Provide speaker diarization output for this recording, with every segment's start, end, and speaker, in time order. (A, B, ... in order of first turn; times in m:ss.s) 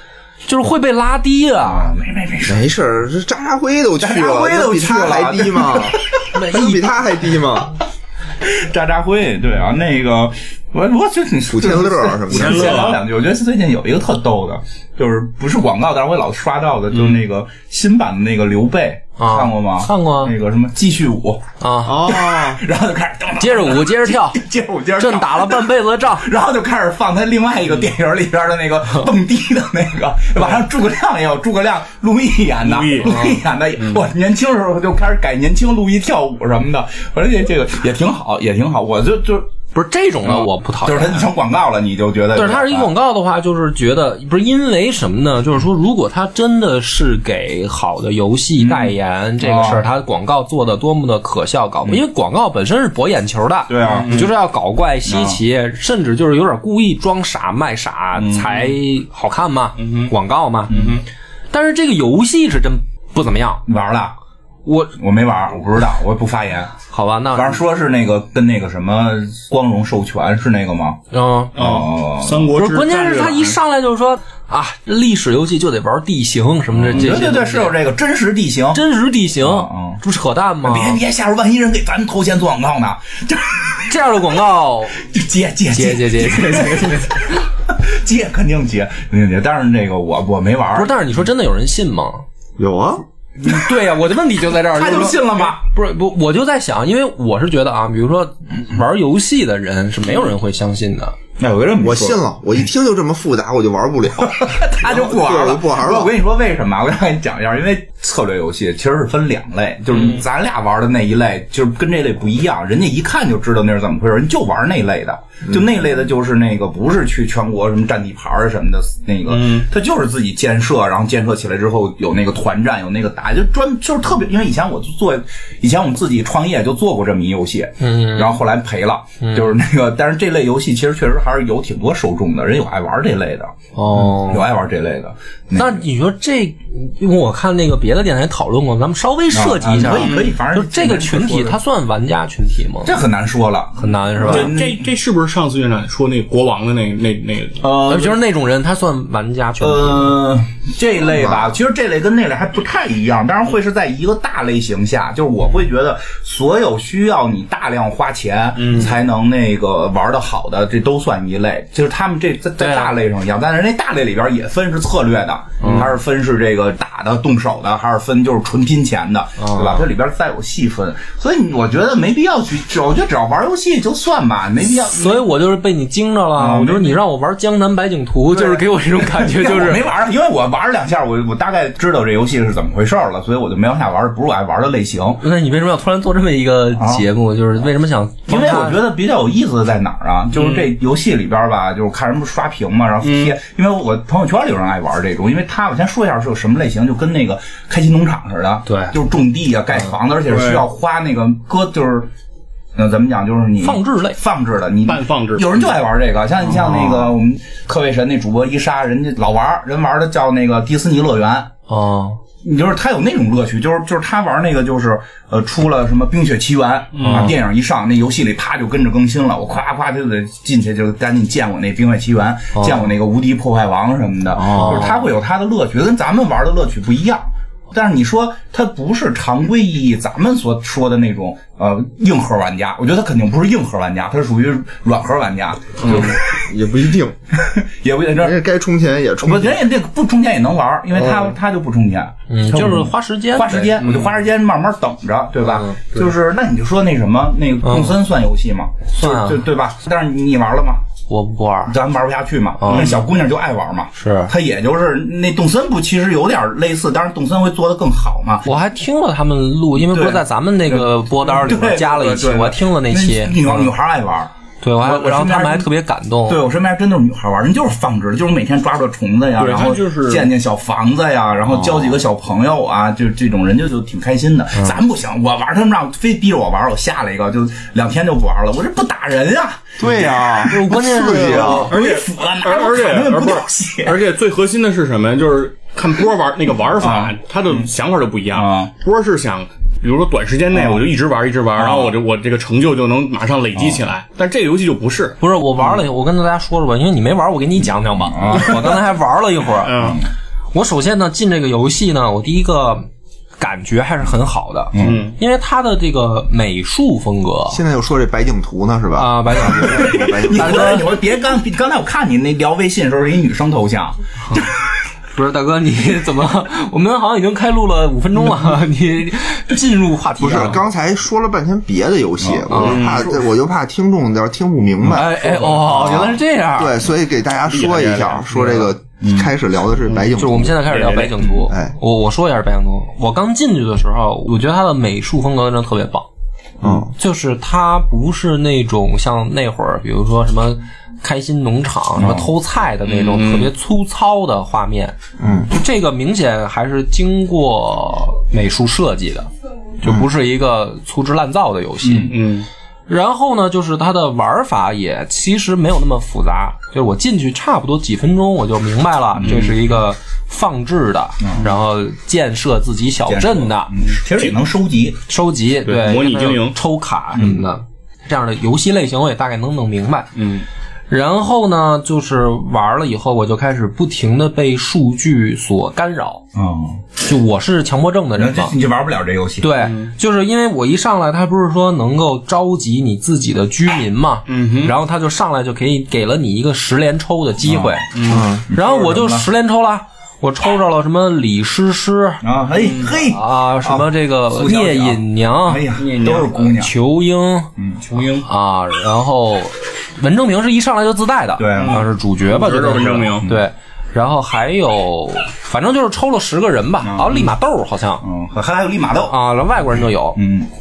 0:00.5-0:02.0 A
0:01.6-0:02.6 B
0:02.4-0:07.7 C
0:04.0-0:06.3 B
0:06.3-0:07.1 A
0:08.4-0:39.5 B
0:11.5-0:13.0 C
0:12.3-0:13.0 D
0:19.2-0:20.3 A
0:21.6-0:22.0 A
0:21.8-0:22.6 C
0:23.4-0:24.4 A
0:25.0-0:26.3 A
0:32.6-0:33.2 D
0:33.0-0:33.4 A
0:33.8-0:34.0 D
0:39.7-0:41.3 A
0:40.2-0:42.9 B
0:42.3-1:00.8 A
0:48.6-0:49.9 B
0:53.7-0:54.3 B
0:53.9-0:54.3 D
0:55.1-0:55.4 B
0:58.2-0:58.7 B
0:59.8-1:00.1 D
1:00.7-1:01.0 B
1:00.7-1:01.0 D
1:01.5-1:03.6 A
1:03.7-1:04.2 B
1:04.7-1:05.0 A
1:05.0-1:06.8 B
1:06.9-1:07.6 A
1:07.4-1:11.0 B
1:11.1-1:11.6 A
1:11.6-1:12.5 B
1:11.6-1:13.6 D
1:12.5-1:17.8 A
1:16.8-1:18.8 B
1:16.9-1:17.3 D
1:18.7-1:21.0 A
1:19.4-1:20.0 B
1:20.6-1:23.9 B
1:23.9-1:25.1 A
1:25.0-1:30.9 B
1:25.7-1:27.1 A
1:30.7-1:32.2 A
1:32.6-1:33.0 C
1:33.4-1:41.2 A
1:34.7-1:35.6 B
1:41.4-1:42.2 B
1:41.8-1:46.1 C
1:44.3-2:15.8 B
1:59.3-1:59.7 D
2:07.8-2:08.4 A
2:09.2-2:09.5 A
2:13.8-2:14.5 A
2:15.6-2:23.0 A
2:19.3-2:21.6 B
2:19.9-2:20.4 D
2:22.8-2:24.8 B
2:23.8-2:24.5 A
2:24.2-2:27.6 D
2:27.6-2:28.2 B
2:27.9-2:30.2 A
2:29.6-2:55.2 B
2:31.1-2:31.5 C
2:38.6-2:39.0 D
2:42.6-2:42.9 A
2:45.6-2:45.9 A
2:49.4-2:49.9 A
2:54.7-2:59.8 A
2:56.4-2:57.0 B
2:58.3-3:05.2 B
3:05.2-3:08.8 A
3:06.8-3:07.1 B
3:08.3-3:22.1 B
3:10.3-3:10.7 D
3:13.0-3:13.4 D
3:18.7-3:18.9 A
3:20.3-3:20.7 D
3:22.8-3:31.5 B
3:23.6-3:24.2 A
3:24.8-3:25.7 D
3:31.7-3:32.2 A
3:32.4-3:56.4 B
3:36.9-3:37.4 D
3:37.0-3:37.4 A
3:42.6-3:42.9 A
3:44.3-3:44.9 C
3:44.5-3:45.0 A
3:55.8-3:57.2 C
3:57.4-3:58.4 B
3:58.2-3:59.6 C
3:59.2-4:10.8 B
4:02.3-4:03.8 A
4:03.8-4:04.1 D
4:05.4-4:05.8 A
4:07.6-4:08.0 A
4:09.0-4:09.4 A
4:11.1-4:11.7 A
4:11.7-4:18.5 B
4:12.6-4:13.0 A
4:12.7-4:13.0 D
4:14.0-4:14.3 A
4:18.4-4:23.7 A
4:19.8-4:25.7 B
4:24.6-4:26.4 A
4:26.3-4:44.0 B
4:29.4-4:30.3 D
4:31.5-4:32.0 C
4:39.8-4:41.7 C
4:40.5-4:41.7 A
4:41.7-4:55.2 D
4:46.8-4:47.7 B
4:48.3-4:48.7 B
4:50.5-4:50.8 B
4:51.6-4:52.0 B
4:55.2-4:59.8 A
4:58.0-4:58.8 B
4:59.6-5:00.0 D
4:59.8-5:00.0 B
5:00.5-5:02.9 A
5:03.4-5:07.6 A
5:04.7-5:05.0 B
5:04.8-5:05.2 D
5:07.5-5:10.9 C
5:09.0-5:10.8 A
5:09.6-5:14.6 B
5:15.1-5:20.6 A
5:20.2-5:30.7 C
5:22.2-5:23.2 B
5:22.5-5:22.8 A
5:22.6-5:23.1 D
5:24.9-5:26.8 A
5:27.5-5:28.7 D
5:29.0-5:29.3 B
5:29.9-5:30.1 D
5:30.2-5:36.1 A
5:30.7-5:31.3 D
5:31.5-5:31.7 C
5:36.6-5:36.9 C
5:36.9-5:45.0 A
5:42.0-5:42.3 B
5:42.8-5:43.5 D
5:45.2-5:45.5 C
5:45.5-5:52.2 A
5:51.8-5:52.2 B
5:52.1-5:52.5 D
5:52.9-6:03.7 A
5:59.1-5:59.6 B
5:59.2-5:59.6 D
6:03.1-6:05.0 B
6:03.8-6:04.3 D
6:05.1-6:10.1 A
6:05.6-6:06.6 D
6:07.2-6:07.4 B
6:10.2-6:10.4 D
6:10.9-6:16.2 A
6:16.4-6:16.8 B
6:17.0-6:18.6 A
6:18.2-6:19.5 B
6:19.4-6:27.8 A
6:19.6-6:19.9 D
6:24.3-6:24.7 D
6:27.4-6:29.3 B
6:27.9-6:28.3 D
6:28.1-6:28.4 C
6:28.5-6:32.2 A
6:32.2-6:36.7 B
6:32.6-6:32.9 D
6:32.9-6:35.7 A
6:35.8-6:36.4 D
6:36.3-6:37.5 A
6:37.6-6:37.8 B
6:37.8-6:38.3 D
6:38.2-6:48.0 A
6:41.4-6:41.9 B
6:41.6-6:43.3 D
6:46.8-6:47.3 B
6:48.0-6:49.2 B
6:49.1-6:50.2 A
6:50.2-6:50.5 B